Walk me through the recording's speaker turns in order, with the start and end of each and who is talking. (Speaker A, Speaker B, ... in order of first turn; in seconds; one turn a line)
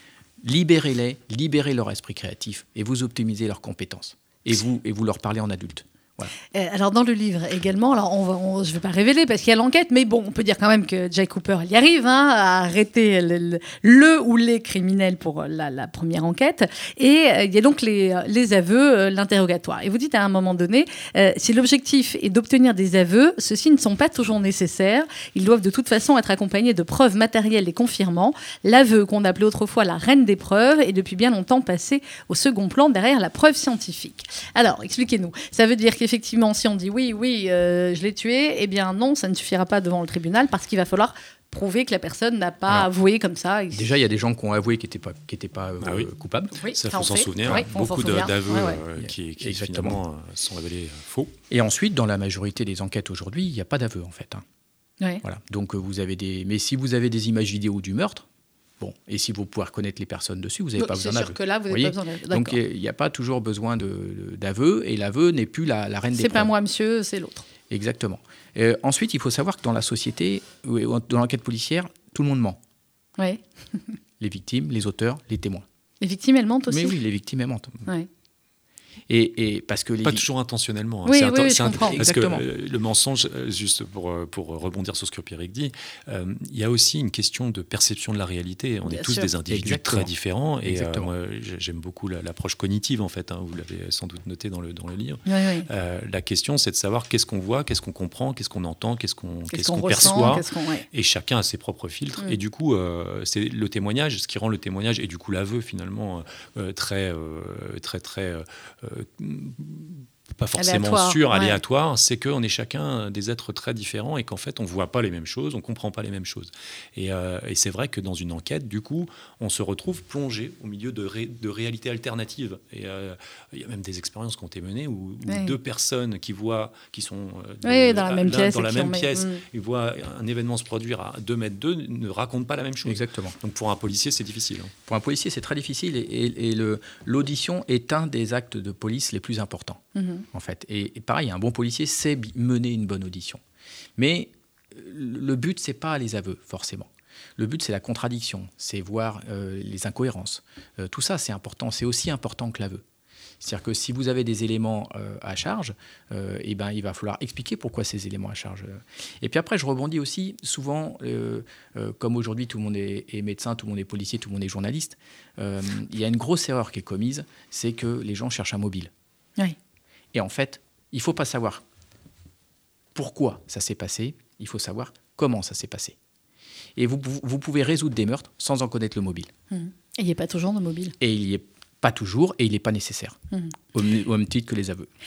Speaker A: 0.4-6.3
Speaker B: 6.5-43.9
Speaker A: 43.7-46.6
Speaker C: 45.8-46.1
Speaker B: 46.6-48.8
Speaker C: 46.7-51.3
Speaker A: 49.0-50.0
Speaker A: 51.5-54.4
Speaker A: 55.2-58.2
Speaker A: 58.8-66.5
Speaker B: 60.8-62.6
Speaker B: 66.1-67.5
Speaker A: 67.7-72.6
Speaker A: 74.2-75.7
Speaker B: 76.0-77.0
Speaker A: 76.7-77.7
Speaker A: 79.1-80.2
Speaker C: 80.0-134.7
Speaker B: 81.0-82.0
Speaker A: 81.8-82.4
Speaker B: 88.9-89.3
Speaker A: 89.5-90.1
Speaker A: 90.6-91.1
Speaker B: 95.2-95.7
Speaker B: 99.5-100.8
Speaker B: 110.5-111.6
Speaker B: 125.3-125.5
Speaker B: 127.6-129.4
Speaker A: 132.8-133.4
Speaker A: 134.9-143.4
Speaker B: 139.9-140.2
Speaker A: 144.0-152.8
Speaker A: 153.4-168.9
Speaker A: 170.1-171.6
Speaker A: 172.9-175.9
Speaker A: 176.8-179.3
Speaker B: 179.5-180.9
Speaker A: 181.0-183.2
Speaker A: 183.7-184.9